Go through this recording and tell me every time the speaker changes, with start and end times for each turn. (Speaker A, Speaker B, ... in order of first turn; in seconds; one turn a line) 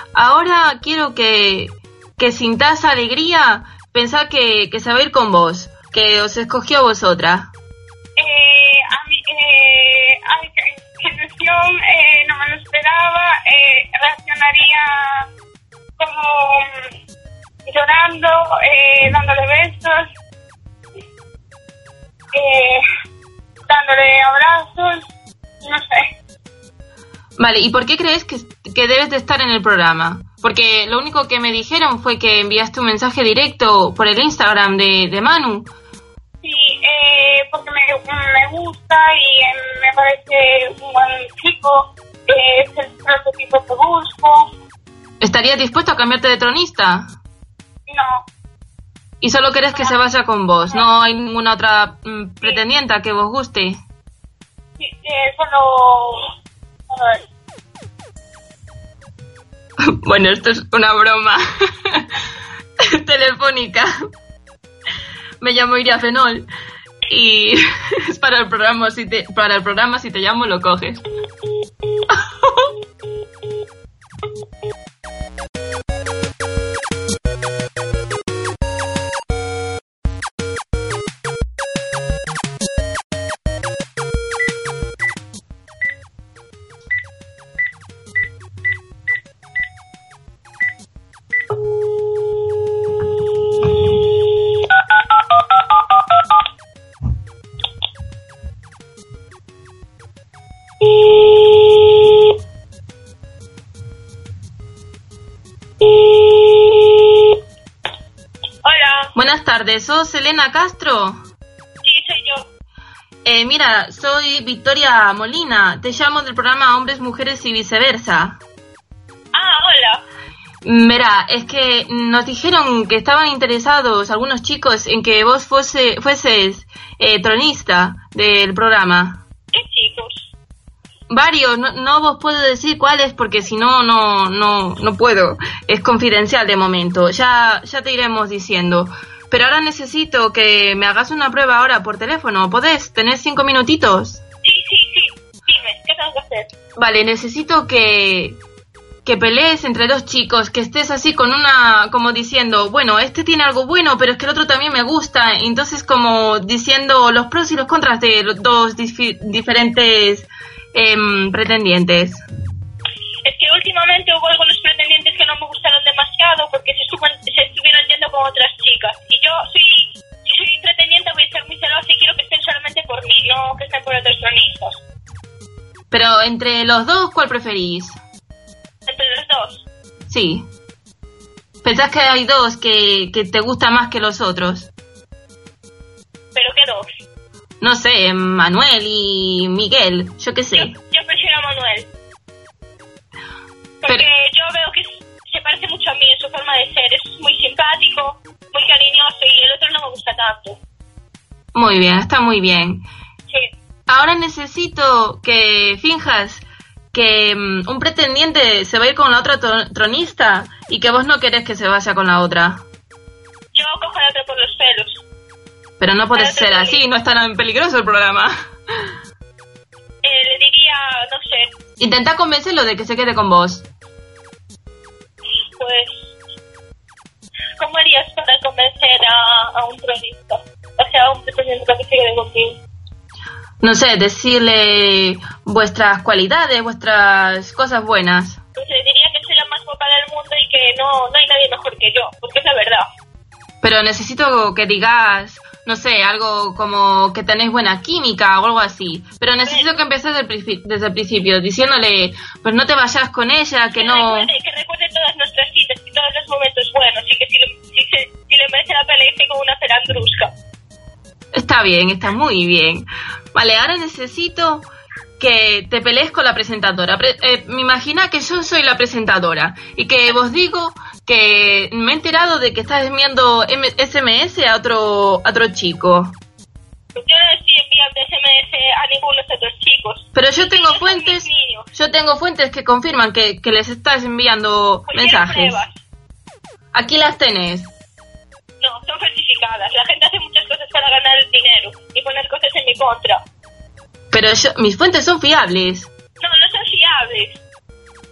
Speaker A: 0.1-7.5
Speaker B: 8.2-15.3
Speaker B: 16.0-16.8
Speaker B: 17.7-20.1
Speaker B: 22.3-22.8
Speaker B: 23.7-25.1
Speaker B: 25.6-26.1
Speaker A: 27.4-35.7
Speaker B: 36.4-44.5
Speaker A: 45.2-47.1
Speaker B: 47.9-48.2
Speaker A: 49.2-53.8
Speaker B: 54.8-56.3
Speaker B: 56.9-57.2
Speaker A: 59.9-62.1
Speaker A: 62.8-64.0
Speaker A: 65.4-66.5
Speaker A: 67.1-71.0
Speaker A: 72.1-72.7
Speaker C: 108.6-109.1
Speaker A: 109.2-111.2
Speaker C: 111.8-112.5
Speaker A: 113.2-118.4
Speaker C: 119.3-120.0
Speaker A: 120.6-129.2
Speaker C: 129.5-130.3
Speaker A: 131.1-144.2
Speaker C: 144.4-146.5
Speaker A: 146.8-148.4
Speaker A: 149.1-162.2
Speaker C: 163.2-174.8
Speaker A: 175.9-178.0
Speaker C: 178.9-179.7
Speaker A: 180.1-180.5
Speaker A: 181.6-184.7
Speaker C: 186.3-186.9
Speaker A: 187.6-190.8
Speaker C: 190.5-191.9
Speaker C: 193.8-200.6
Speaker A: 201.5-202.9
Speaker A: 203.9-212.7
Speaker C: 213.5-215.0
Speaker A: 215.8-218.3
Speaker C: 216.1-216.8
Speaker C: 220.0-221.5
Speaker A: 221.8-223.7
Speaker C: 225.6-226.1
Speaker C: 227.6-232.6
Speaker A: 233.6-238.4
Speaker C: 238.6-242.9
Speaker A: 243.6-254.3
Speaker C: 253.7-260.3
Speaker A: 261.3-264.7
Speaker A: 265.2-276.2
Speaker C: 276.9-281.7
Speaker A: 280.1-285.6
Speaker C: 284.9-285.7
Speaker A: 286.7-287.7
Speaker C: 288.6-293.2
Speaker A: 294.1-295.9
Speaker C: 296.2-297.4